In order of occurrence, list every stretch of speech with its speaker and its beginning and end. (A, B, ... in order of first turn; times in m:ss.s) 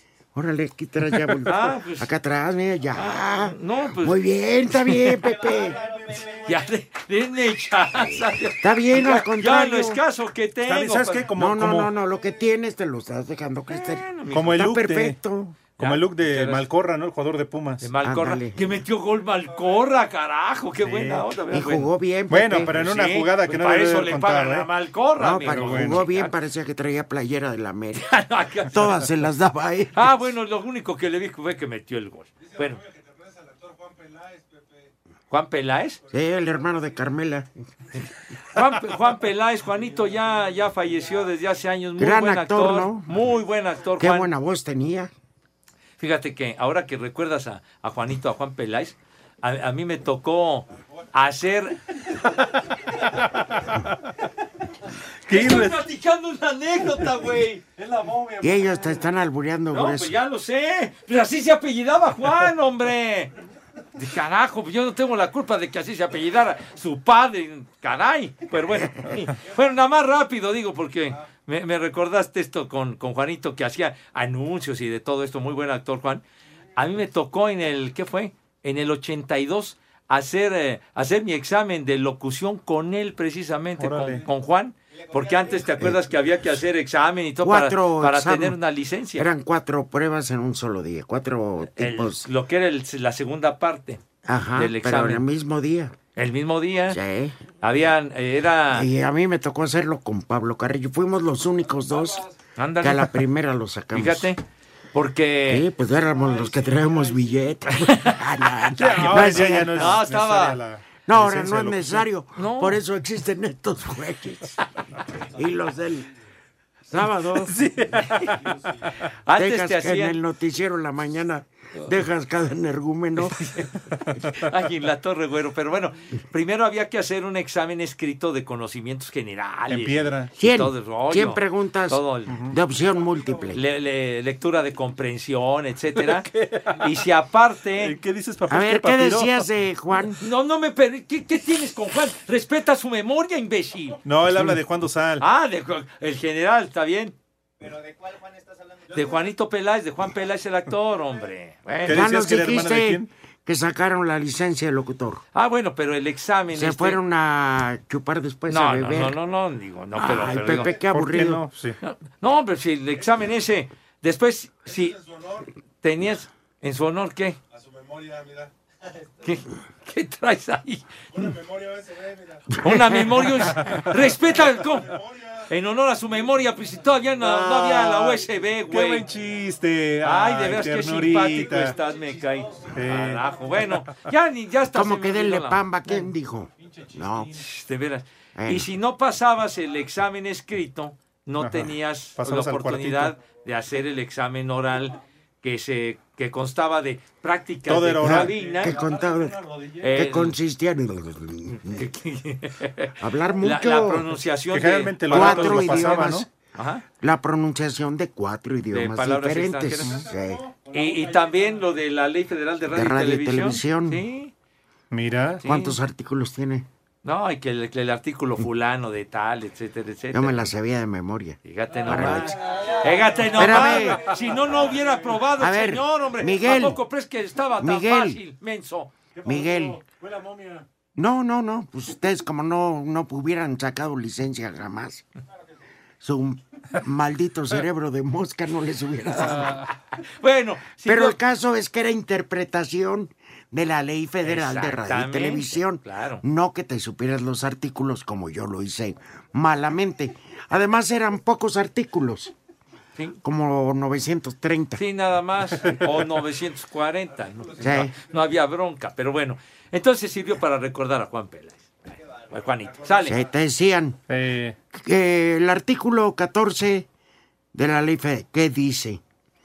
0:00.3-0:05.8 A
0:01.4-0:02.1 B
0:02.9-0:04.2 B
0:04.8-0:05.5 B
0:05.4-0:06.6 C
0:06.4-0:11.3 B
0:08.6-0:10.0 A
0:10.6-0:11.9 D
0:11.3-0:15.6 A
0:13.7-0:14.6 B
0:14.3-0:15.2 D
0:15.8-0:16.6 B
0:15.8-0:17.9 D
0:17.8-0:21.9 B
0:18.0-0:18.8 A
0:20.8-0:21.3 D
0:21.5-0:22.7 A
0:22.3-0:24.7 D
0:22.7-0:26.3 B
0:25.2-0:30.1 A
0:25.4-0:26.0 D
0:28.0-0:28.9 B
0:29.9-0:32.8 B
0:32.4-0:34.9 C
0:35.3-0:36.0 B
0:36.1-0:37.5 A
0:38.5-0:44.3 B
0:40.3-0:40.5 C
0:42.0-0:43.1 A
0:44.0-0:45.1 A
0:46.0-0:51.8 B
0:55.3-0:55.8 D
0:55.3-0:57.6 B
0:57.7-0:58.8 C
0:58.4-1:00.1 A
0:59.7-1:03.3 B
1:04.0-1:16.2 B
1:16.8-1:29.3 B
1:23.8-1:24.2 D
1:25.0-1:25.8 C
1:27.4-1:28.6 A
1:29.2-1:32.3 A
1:31.7-1:34.0 B
1:34.2-1:35.9 A
1:34.6-1:35.2 B
1:36.1-1:37.0 B
1:36.9-1:37.4 A
1:37.6-1:38.9 B
1:38.7-1:42.2 A
1:42.6-1:43.2 B
1:42.8-1:44.3 A
1:43.9-1:44.4 B
1:44.9-1:45.7 B
1:45.5-1:50.0 A
1:46.2-1:47.2 C
1:47.8-1:48.2 B
1:48.8-1:52.0 D
1:49.7-1:50.6 B
1:51.0-1:54.6 A
1:52.4-1:52.8 B
1:55.3-1:56.1 A
1:56.9-1:57.6 A
1:57.5-1:58.4 D
1:57.9-1:58.4 B
1:59.2-2:00.2 B
1:59.3-2:03.4 A
2:03.2-2:12.4 B
2:09.7-2:10.3 D
2:10.4-2:13.6 A
2:12.3-2:12.5 D
2:13.0-2:13.4 C
2:13.5-2:18.0 B
2:16.0-2:16.9 D
2:17.8-2:19.4 D
2:18.5-2:20.2 A
2:20.2-2:24.5 B
2:24.0-2:25.2 D
2:25.2-2:27.1 B
2:28.9-2:32.0 B
2:31.8-2:33.1 D
2:31.9-2:35.2 A
2:35.3-2:37.0 B
2:36.5-2:39.2 A
2:38.5-2:40.7 B
2:39.9-2:41.4 A
2:40.9-2:41.8 D
2:41.8-2:45.0 B
2:44.7-2:45.5 C
2:45.8-2:47.4 B
2:47.5-2:49.1 C
2:49.2-2:50.9 B
2:51.1-2:52.5 C
2:52.6-2:54.9 B
2:53.6-2:53.9 D
2:54.2-2:55.5 C
2:55.5-2:59.0 B
2:57.2-3:01.7 D
3:00.0-3:05.6 B
3:01.5-3:02.8 C
3:02.7-3:03.9 D
3:04.7-3:07.4 A
3:06.6-3:07.2 C
3:07.3-3:18.8 B
3:08.4-3:08.7 A
3:11.4-3:13.2 D
3:17.7-3:18.4 D
3:18.0-3:21.8 A
3:18.2-3:20.0 C
3:19.8-3:20.4 B
3:21.6-3:26.8 B
3:23.0-3:24.1 A
3:24.5-3:26.2 D
3:25.1-3:26.3 A
3:27.0-3:30.4 A
3:28.7-3:30.0 B
3:29.9-3:31.6 C
3:30.7-3:34.3 B
3:32.7-3:34.0 A
3:34.9-3:35.4 D
3:35.4-3:35.7 B
3:35.4-3:36.7 A
3:37.0-3:40.4 B
3:40.1-3:42.4 A
3:41.4-3:48.9 B
3:42.5-3:43.3 C
3:43.3-3:44.1 A
3:44.2-3:45.0 C
3:45.4-3:46.8 A
3:47.6-3:48.2 A
3:49.2-3:50.6 C
3:49.2-3:49.8 A
3:50.9-3:55.0 A
3:56.0-3:59.6 A
3:59.1-4:01.2 B
4:00.8-4:12.3 A
4:04.2-4:06.2 B
4:13.2-4:14.8 A
4:14.8-4:23.2 B
4:17.6-4:17.9 A
4:22.8-4:23.1 C
4:23.0-4:24.0 A
4:24.1-4:24.6 D
4:24.7-4:26.9 A
4:27.5-4:29.0 A